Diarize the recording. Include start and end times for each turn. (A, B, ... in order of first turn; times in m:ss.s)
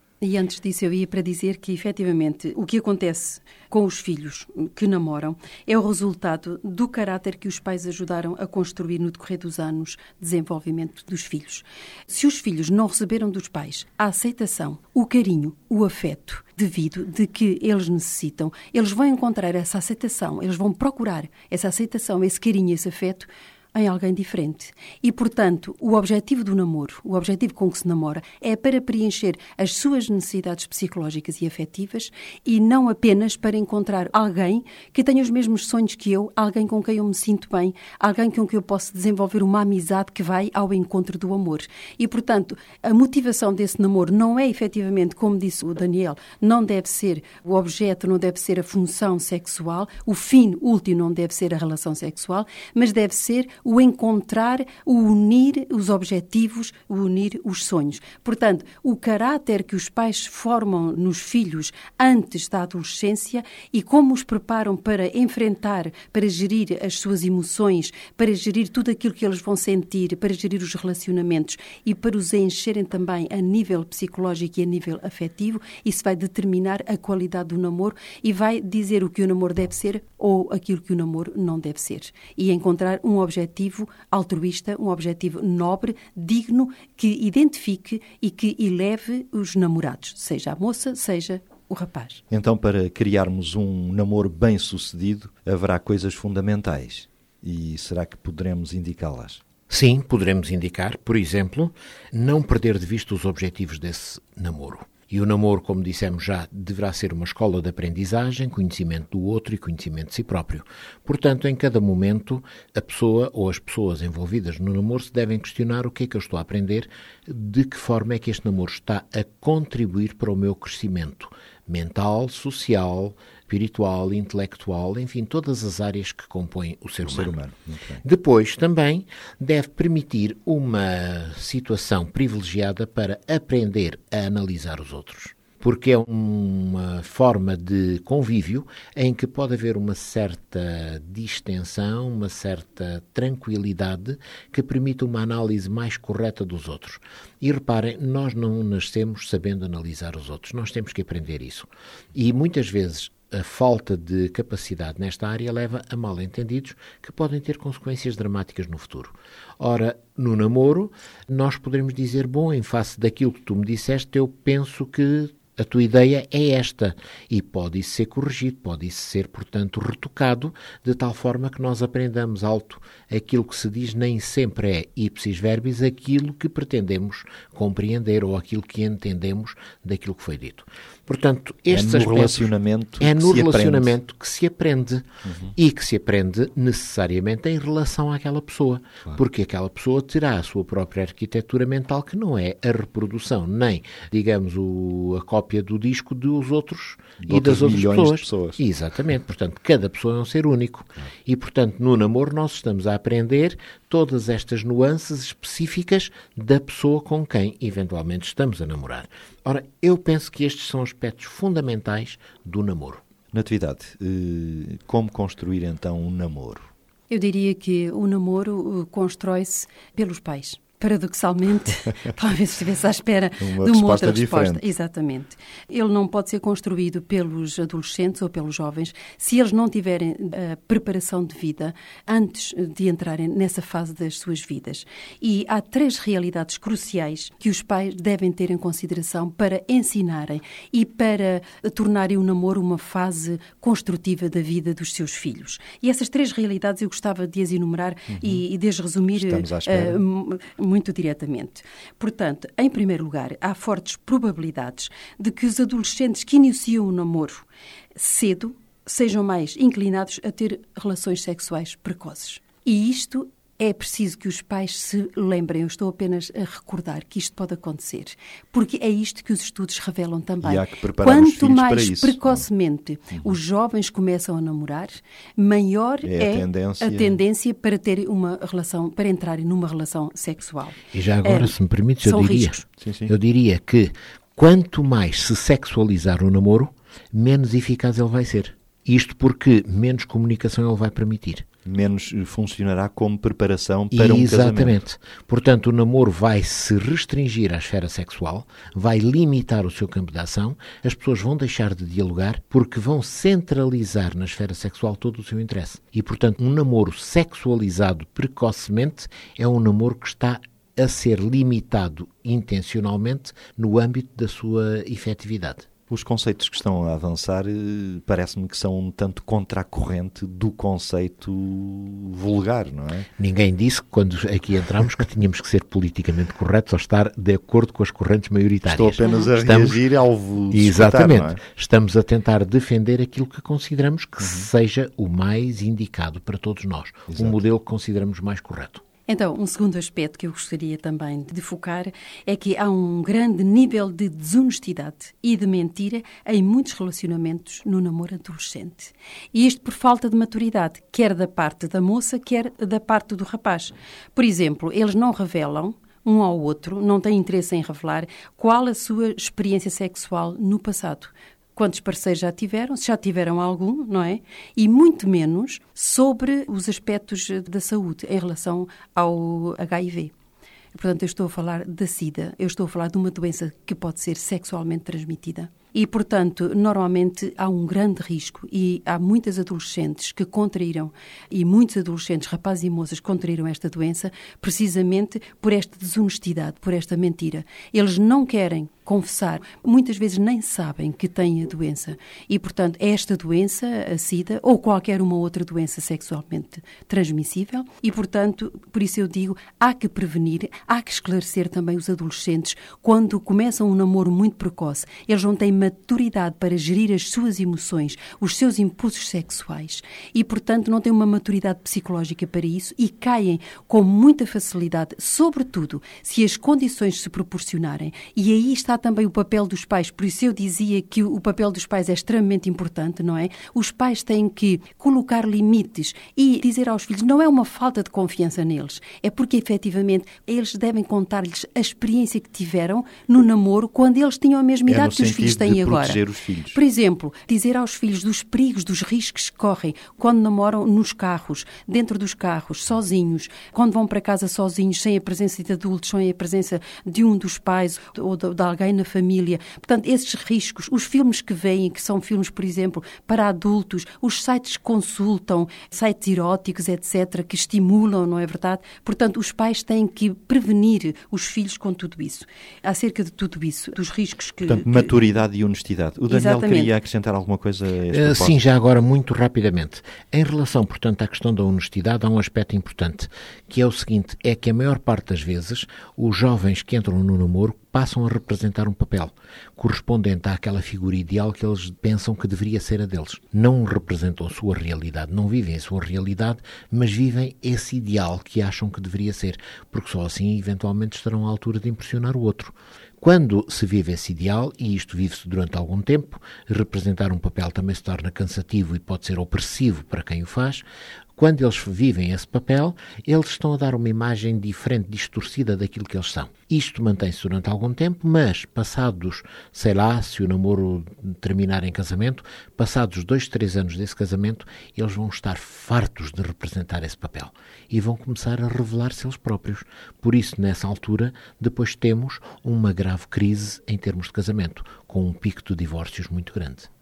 0:00.2-1:32.2 A
1:32.3-1:39.4 B
1:39.7-2:07.4 C
2:07.0-2:08.0 B
2:08.0-3:33.0 C
3:01.7-3:04.0 B
3:05.3-3:05.5 B
3:17.2-3:18.6 B
3:33.3-3:36.7 B
3:37.1-4:42.6 A
3:43.4-3:44.6 B
4:08.1-4:08.4 B
4:09.1-4:10.0 B
4:30.4-4:32.4 B
4:36.0-4:37.2 B
4:40.9-4:51.5 C
4:42.8-4:43.1 B
4:51.6-4:54.8 B
4:53.9-5:15.7 C
5:15.9-5:23.1 B
5:23.2-5:29.8 C
5:28.7-5:31.4 B
5:30.5-5:38.8 C
5:34.2-5:34.5 B
5:37.1-5:37.4 B
5:39.1-6:10.1 A
6:10.7-7:16.0 A
7:14.7-7:16.6 B
7:16.5-7:44.9 A
7:44.4-7:48.4 B
7:46.1-7:46.7 A
7:47.9-8:20.6 C
8:21.2-8:46.7 C